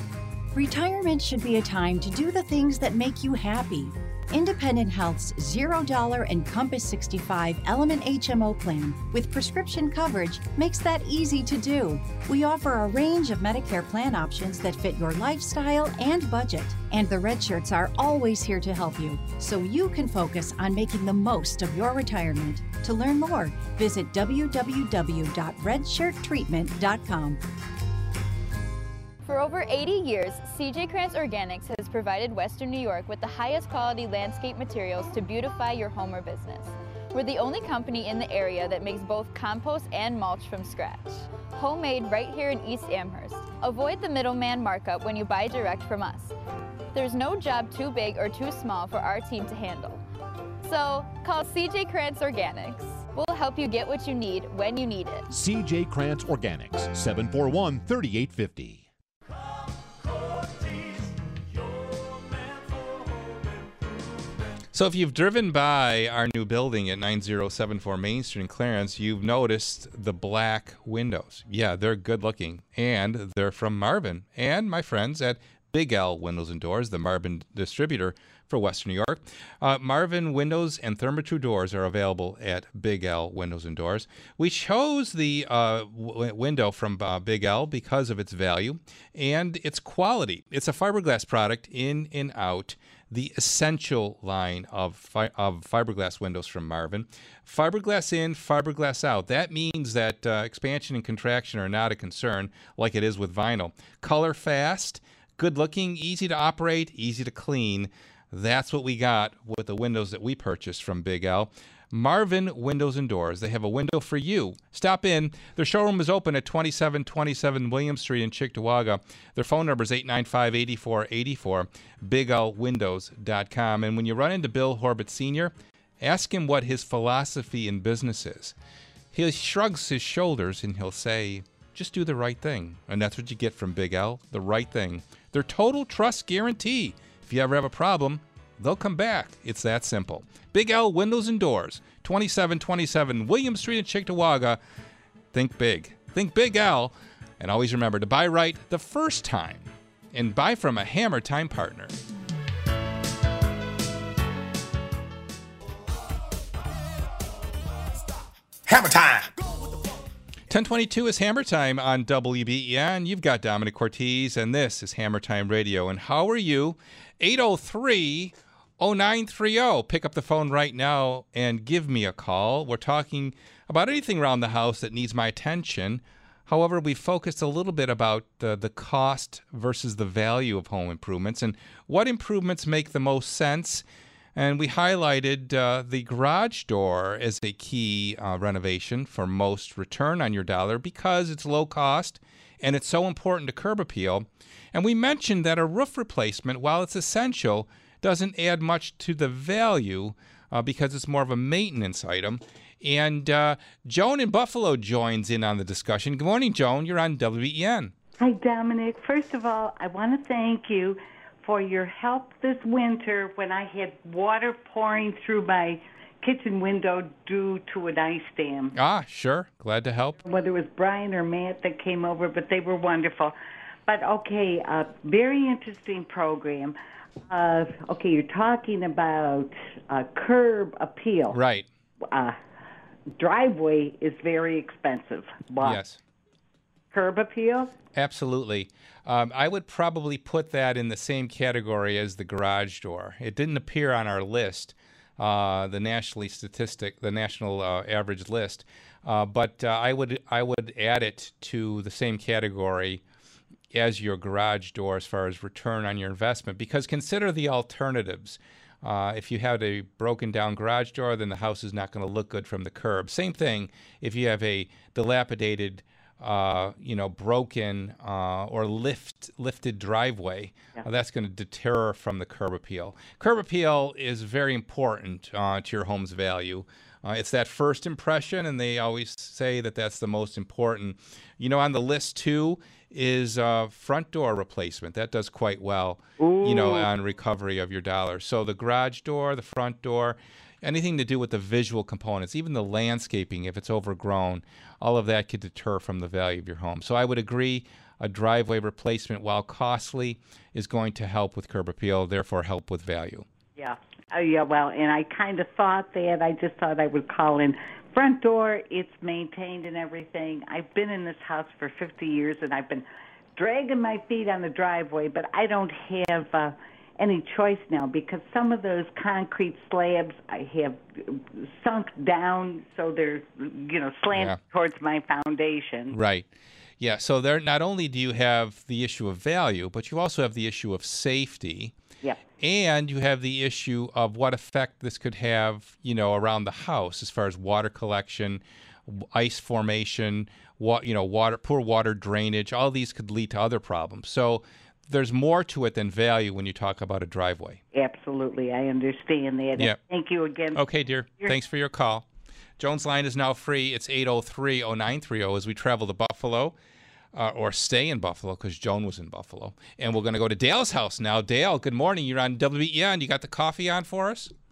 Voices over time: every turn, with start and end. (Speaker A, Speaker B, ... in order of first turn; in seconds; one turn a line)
Speaker A: 0.5-27.4
Speaker B: 29.2-46.4
Speaker B: 46.9-50.0
Speaker B: 50.6-55.3
Speaker C: 55.3-58.9
Speaker D: 64.7-128.6
Speaker D: 129.1-144.6
Speaker D: 145.3-152.0
Speaker E: 157.9-160.1
Speaker D: 160.5-207.9
Speaker F: 208.2-218.8
Speaker D: 218.8-220.2
Speaker F: 220.2-223.3
Speaker F: 223.9-226.8
Speaker F: 227.3-231.4
Speaker D: 231.3-231.7
Speaker F: 232.1-232.4
Speaker F: 233.2-235.8
Speaker D: 235.6-236.0
Speaker F: 236.9-237.7
Speaker D: 237.9-253.0
Speaker D: 253.7-303.3
Speaker F: 286.2-286.9
Speaker F: 303.6-326.0
Speaker D: 324.1-324.4
Speaker D: 325.9-326.3
Speaker D: 326.8-331.8
Speaker D: 332.4-347.6
Speaker F: 347.7-350.7
Speaker D: 350.5-352.1
Speaker D: 352.6-356.6
Speaker D: 357.1-364.3